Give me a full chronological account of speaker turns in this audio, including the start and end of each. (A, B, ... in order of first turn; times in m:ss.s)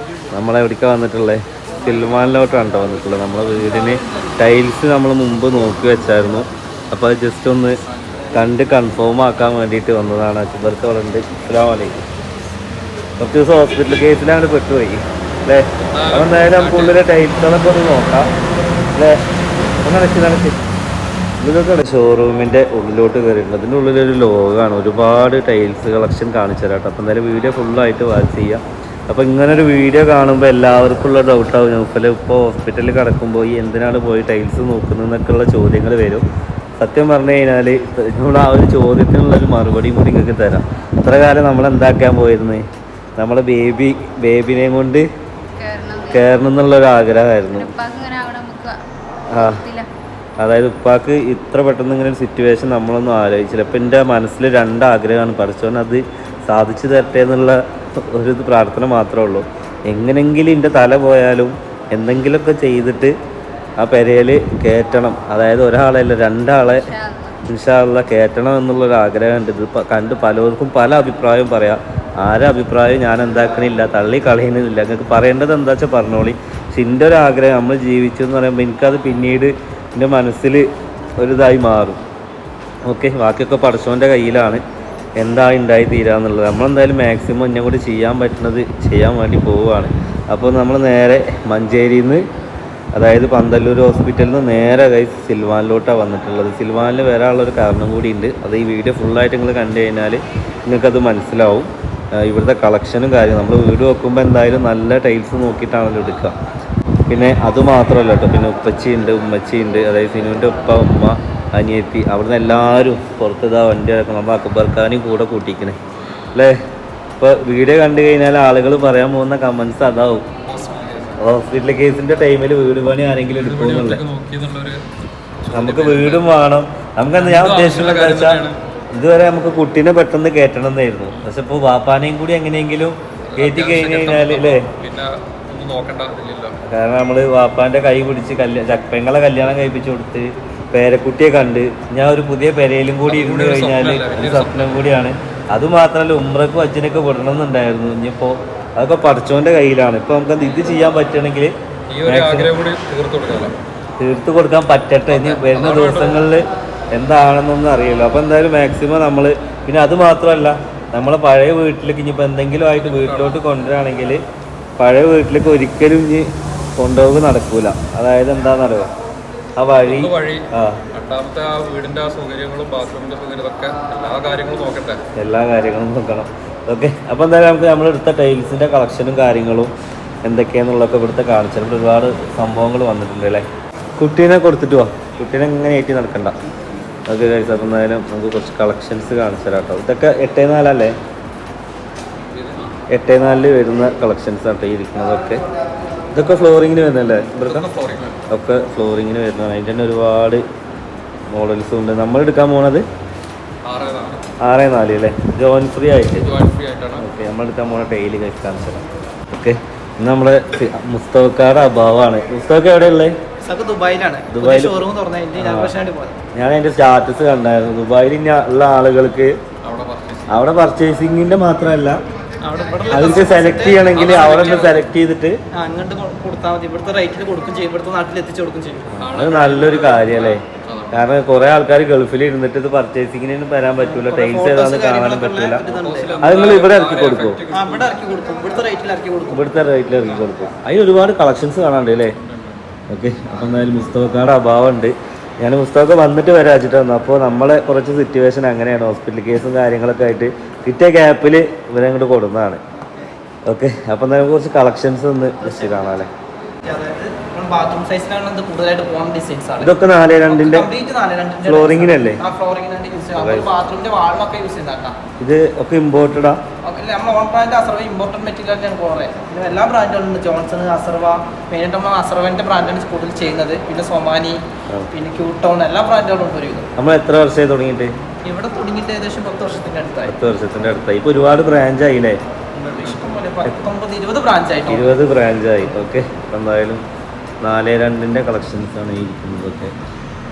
0:00.3-0:07.8 A
0:08.3-0:11.9 A
0:13.2-0:18.3 A
0:15.8-0:17.0 B
0:19.0-0:19.2 A
0:19.8-0:20.6 A
0:21.4-0:36.2 A
0:36.8-0:42.6 A
0:43.2-0:45.1 A
0:45.5-0:46.5 C
0:46.1-0:47.7 A
0:47.5-0:49.9 C
0:49.3-0:49.6 A
0:50.4-1:03.1 A
1:03.8-1:06.9 A
1:06.7-1:07.4 C
1:07.4-1:20.6 A
1:21.2-1:22.0 A
1:22.8-1:24.6 A
1:25.2-1:32.2 A
1:32.9-1:46.4 A
1:47.1-1:55.8 A
1:57.2-2:00.2 A
2:00.4-2:01.2 B
2:01.2-2:04.0 A
2:03.3-2:04.8 B
2:05.4-2:06.3 B
2:05.5-2:14.6 A
2:07.1-2:08.6 B
2:13.3-2:16.5 B
2:16.6-2:31.5 A
2:23.0-2:24.9 B
2:31.9-2:33.5 B
2:32.0-2:32.5 A
2:34.0-2:44.2 A
2:35.1-2:36.2 B
2:42.7-2:43.4 B
2:44.8-2:48.9 A
2:49.6-2:50.8 A
2:49.8-2:55.0 B
2:55.2-2:59.7 A
3:00.2-3:03.4 A
3:04.0-3:06.3 A
3:07.1-3:10.9 A
3:12.3-3:12.7 B
3:12.9-3:15.4 A
3:16.1-3:17.7 A
3:17.4-3:18.2 B
3:18.3-3:20.4 A
3:21.3-3:22.8 A
3:23.6-3:24.2 B
3:24.4-3:26.3 A
3:26.2-3:27.0 B
3:27.0-3:33.1 A
3:33.4-3:36.2 D
3:34.3-3:34.8 A
3:35.4-3:35.7 A
3:36.3-3:39.3 A
3:39.6-3:40.4 B
3:40.3-3:42.0 A
3:42.4-3:44.8 D
3:42.9-3:45.4 A
3:43.9-3:44.7 B
3:45.5-3:49.0 D
3:49.0-3:55.7 A
3:49.0-3:51.0 B
3:53.8-3:56.5 D
3:55.7-3:58.0 B
3:56.2-3:57.4 A
3:57.5-3:59.4 D
3:59.3-4:02.1 A
4:02.2-4:02.6 B
4:02.9-4:12.6 A
4:12.8-4:13.1 D
4:13.5-4:16.1 A
4:16.6-4:25.0 D
4:19.6-4:20.7 A
4:21.4-4:22.2 A
4:23.1-4:23.5 A
4:25.2-4:26.4 A
4:26.6-4:34.4 D
4:34.9-4:36.7 D
4:36.8-4:37.9 A
4:38.2-4:40.1 D
4:40.0-4:42.2 A
4:42.5-4:45.0 D
4:44.7-4:46.8 A
4:47.4-4:49.7 A